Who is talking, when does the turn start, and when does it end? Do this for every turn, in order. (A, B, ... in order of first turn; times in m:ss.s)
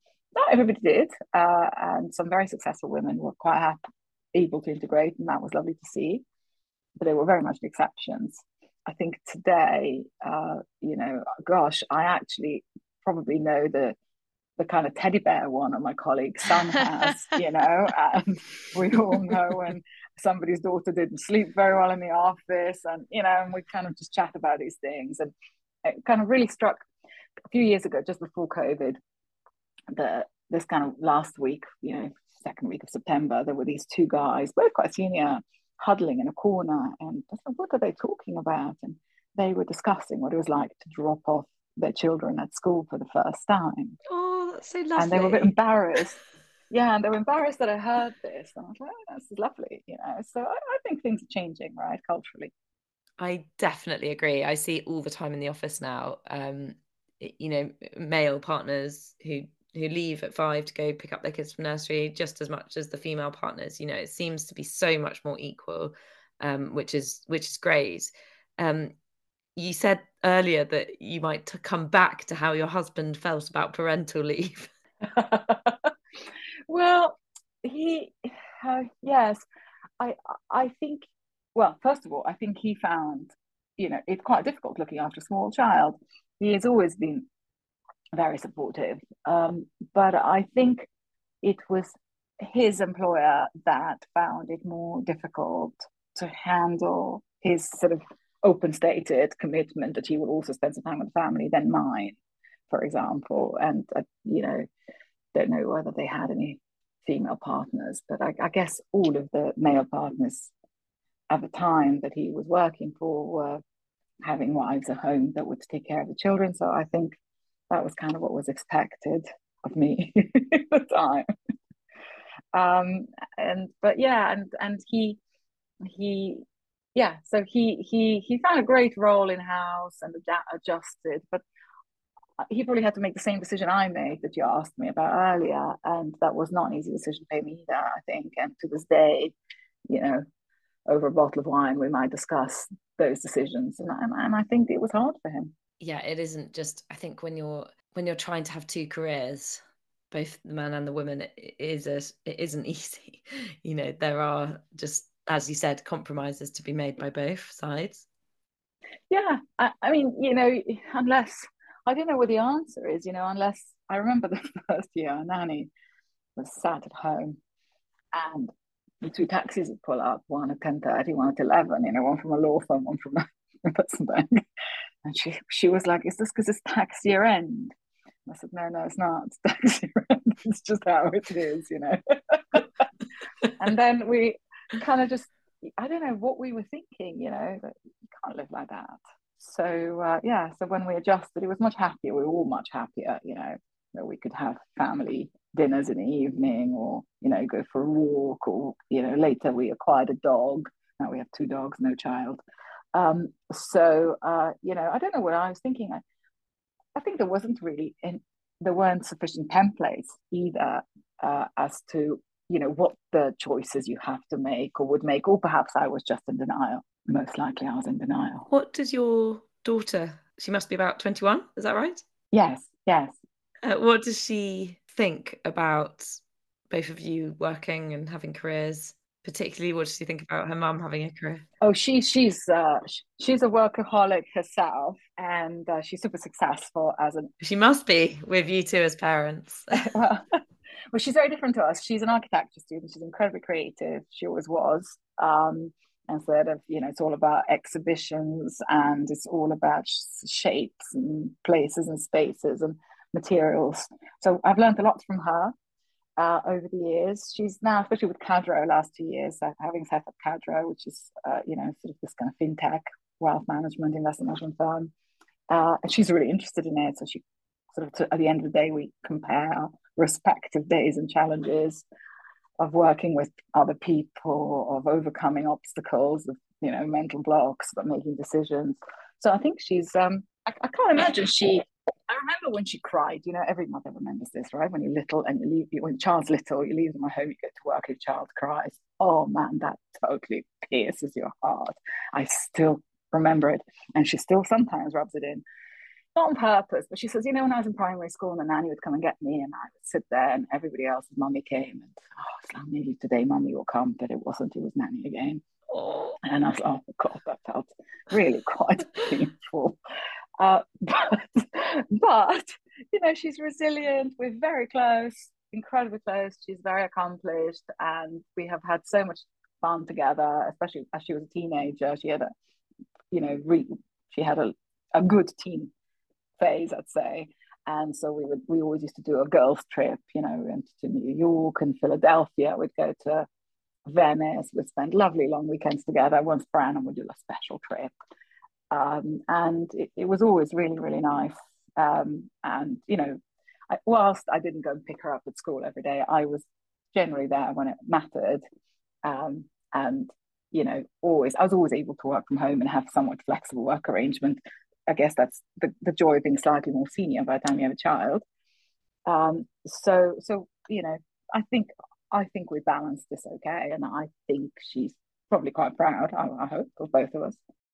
0:00.4-0:03.8 A
0:04.3-0:06.2 A
0:07.0-0:14.0 A
0:14.6-0:25.3 A
0:25.8-0:26.8 A
0:27.5-0:29.0 A
0:29.9-0:44.0 A
0:44.0-0:45.6 B
0:45.0-0:46.2 A
0:46.7-0:52.5 A
0:53.2-1:08.9 B
1:09.6-1:14.7 B
1:15.0-1:15.9 A
1:16.7-1:19.4 A
1:20.0-1:27.2 A
1:28.2-1:30.9 A
1:31.4-1:42.2 A
1:42.7-1:44.6 A
1:45.3-1:50.5 A
1:51.3-1:53.6 A
1:54.2-1:57.2 A
1:57.7-2:01.3 A
2:02.5-2:05.2 A
2:05.8-2:11.4 A
2:12.4-2:19.3 A
2:19.8-2:20.2 A
2:20.9-2:25.5 A
2:25.8-2:38.0 B
2:39.1-2:45.7 A
2:46.4-2:47.4 A
2:48.1-2:54.4 A
2:55.0-2:57.7 A
2:58.3-3:02.8 A
3:03.6-3:22.4 A
3:22.9-3:26.0 A
3:26.9-3:38.5 A
3:38.5-3:42.0 B
3:42.3-3:43.1 A
3:43.6-3:46.2 B
3:46.7-3:51.4 B
3:51.6-3:57.3 A
3:57.4-3:59.9 B
3:59.7-4:00.4 A
4:00.9-4:15.5 A
4:16.2-4:24.9 A
4:25.5-4:27.2 A
4:27.7-4:31.8 A
4:32.6-4:55.4 A
4:56.1-5:05.4 A
5:05.7-5:06.2 B
5:06.2-5:09.8 A
5:10.4-5:22.3 A
5:23.1-5:25.7 A
5:26.4-5:33.3 A
5:33.8-5:37.9 A
5:38.7-5:43.2 A
5:43.7-5:46.4 A
5:46.9-5:48.4 A
5:49.0-5:58.2 A
5:59.0-6:07.4 A